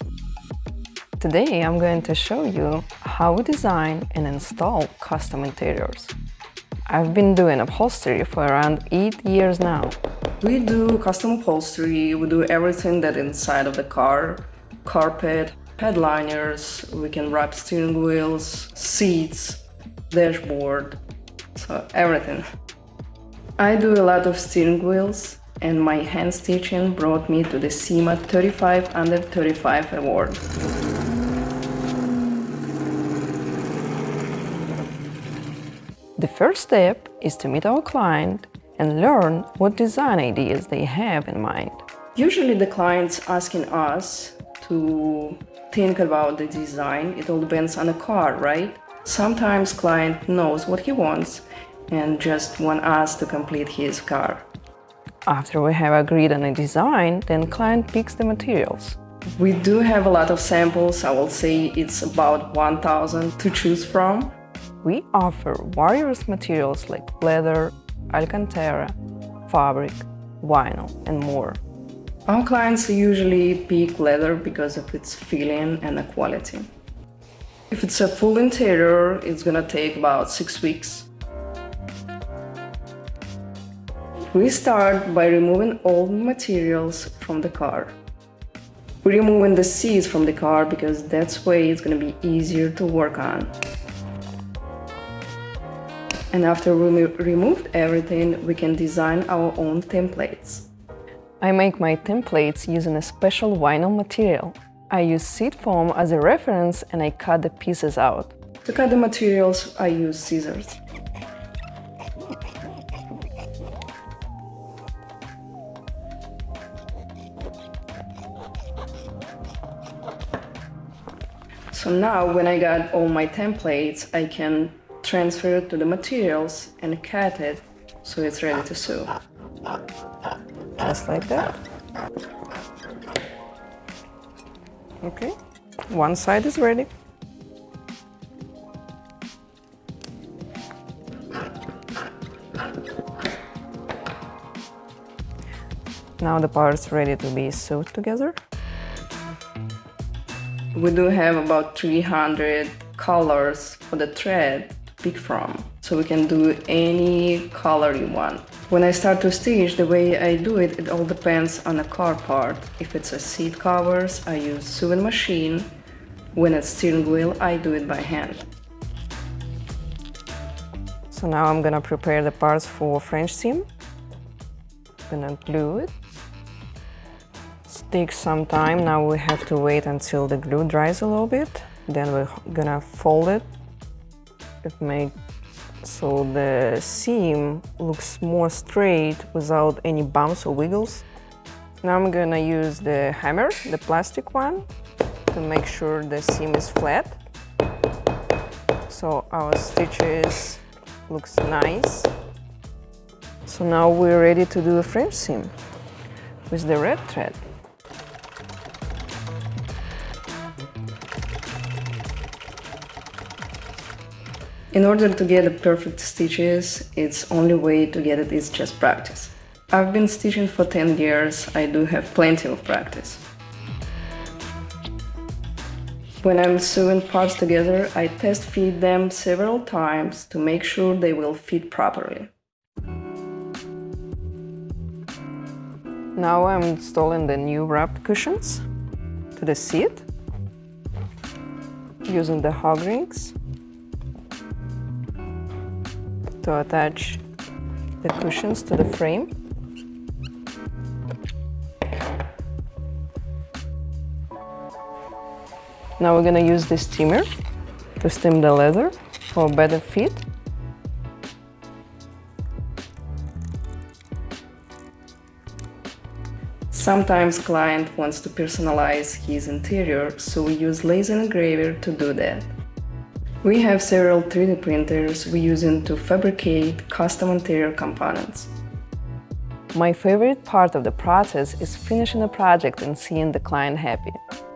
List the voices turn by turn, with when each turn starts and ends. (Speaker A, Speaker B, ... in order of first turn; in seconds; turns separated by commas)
Speaker A: 1.2-6.1, Speaker A: 6.9-10.0, Speaker B: 10.4-21.0, Speaker B: 21.6-22.5, Speaker B: 23.6-30.4, Speaker A: 36.2-41.8, Speaker B: 42.1-54.5, Speaker A: 55.3-59.0, Speaker B: 59.4-64.4, Speaker A: 64.8-69.0, Speaker A: 69.5-71.6, Speaker B: 72.3-76.7, Speaker B: 77.7-81.1, Speaker B: 84.3-88.0, Speaker B: 89.0-93.5, Speaker B: 96.3-100.7, Speaker A: 101.4-108.3, Speaker B: 108.7-110.8, Speaker B: 121.7-129.1, Speaker A: 130.8-131.6, Speaker A: 135.0-135.3, Speaker A: 135.9-136.9, Speaker A: 146.2-148.4, Speaker B: 150.7-165.7, Speaker B: 166.3-168.4, Speaker A: 171.1-173.7, Speaker A: 175.1-175.9, Speaker A: 177.7-183.5, Speaker A: 184.6-185.1, Speaker A: 185.8-191.1, Speaker A: 191.8-194.7, Speaker A: 195.3-197.2, Speaker A: 198.9-202.1, Speaker A: 203.4-205.5, Speaker A: 206.5-207.4, Speaker B: 214.7-223.2, Speaker B: 226.2-232.3, Speaker A: 236.2-238.6, Speaker A: 239.3-240.1, Speaker A: 242.1-243.4, Speaker A: 246.4-247.2, Speaker A: 248.0-249.3, Speaker A: 256.0-257.3, Speaker A: 258.0-260.3, Speaker B: 266.7-272.5, Speaker B: 273.4-278.5, Speaker A: 279.7-284.2